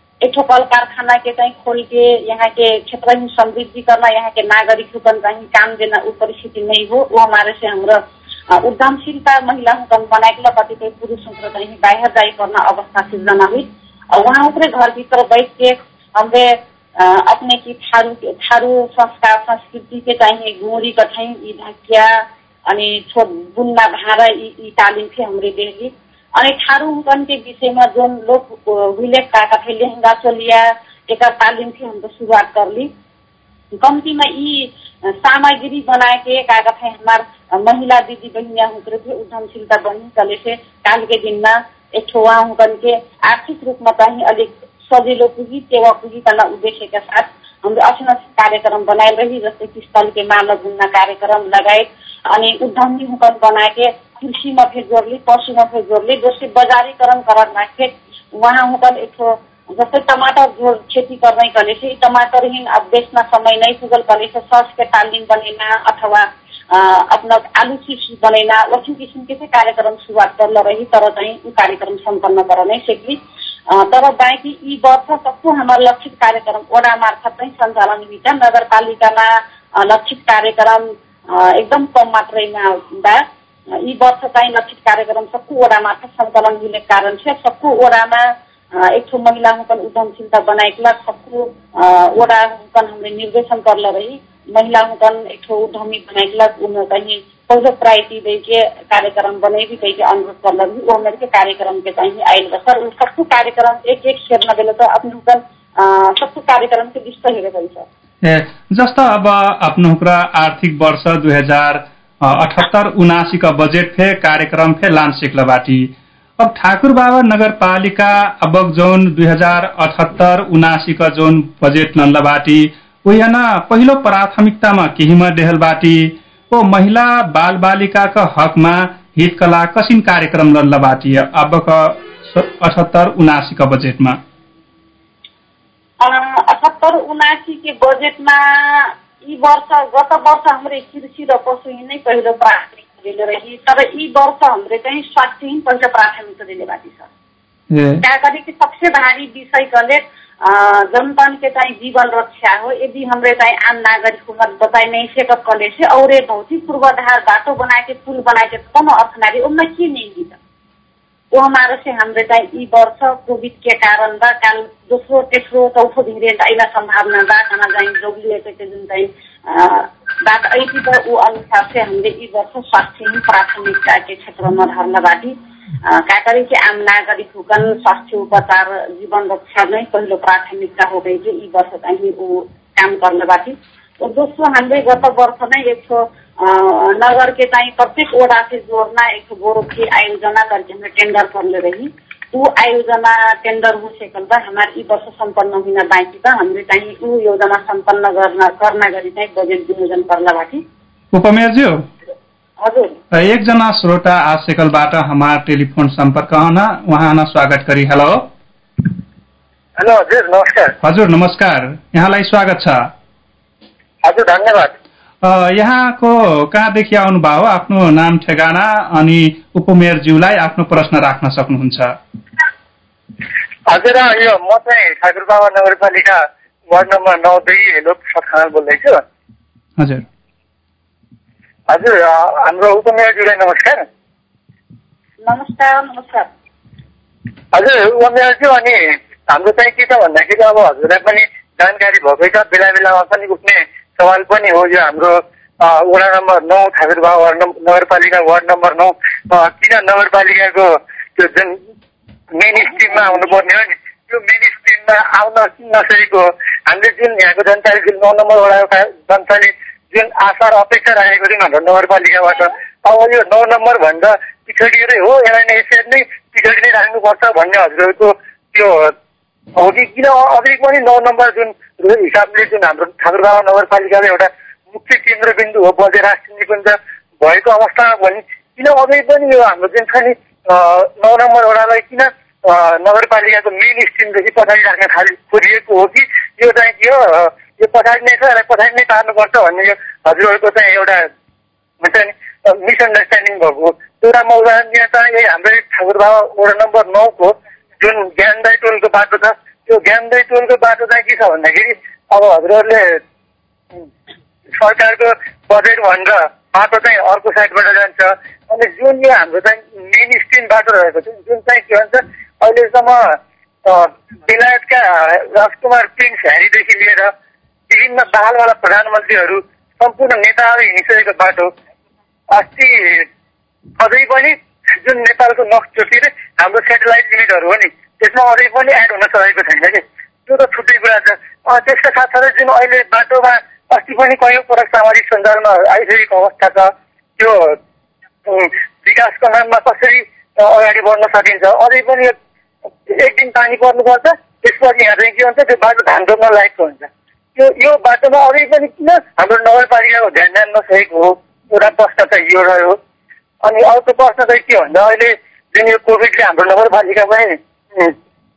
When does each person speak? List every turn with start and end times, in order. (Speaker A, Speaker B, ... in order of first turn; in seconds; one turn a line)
Speaker A: 0.2-32.9
Speaker A: 33.7-107.9
Speaker B: 108.2-134.2
Speaker A: 136.0-147.1
Speaker B: 147.7-148.0
Speaker A: 148.0-160.4
Speaker A: 161.3-200.6
Speaker B: 201.1-201.8
Speaker A: 202.6-203.0
Speaker B: 203.1-208.3
Speaker C: 209.8-210.8
Speaker B: 210.8-212.8
Speaker C: 214.0-214.7
Speaker B: 215.2-221.9
Speaker C: 223.7-229.0
Speaker B: 229.8-230.0
Speaker C: 231.7-233.8
Speaker A: 235.2-236.3
Speaker C: 237.5-251.6
Speaker C: 252.3-268.9
Speaker A: 252.5-253.4
Speaker C: 269.6-291.1
Speaker C: 291.8-303.0
Speaker C: 304.5-317.1
Speaker C: 317.7-321.5
Speaker C: 322.3-323.1
Speaker C: 323.8-337.6
Speaker C: 338.2-342.1
Speaker C: 342.9-352.8
Speaker C: 353.4-357.9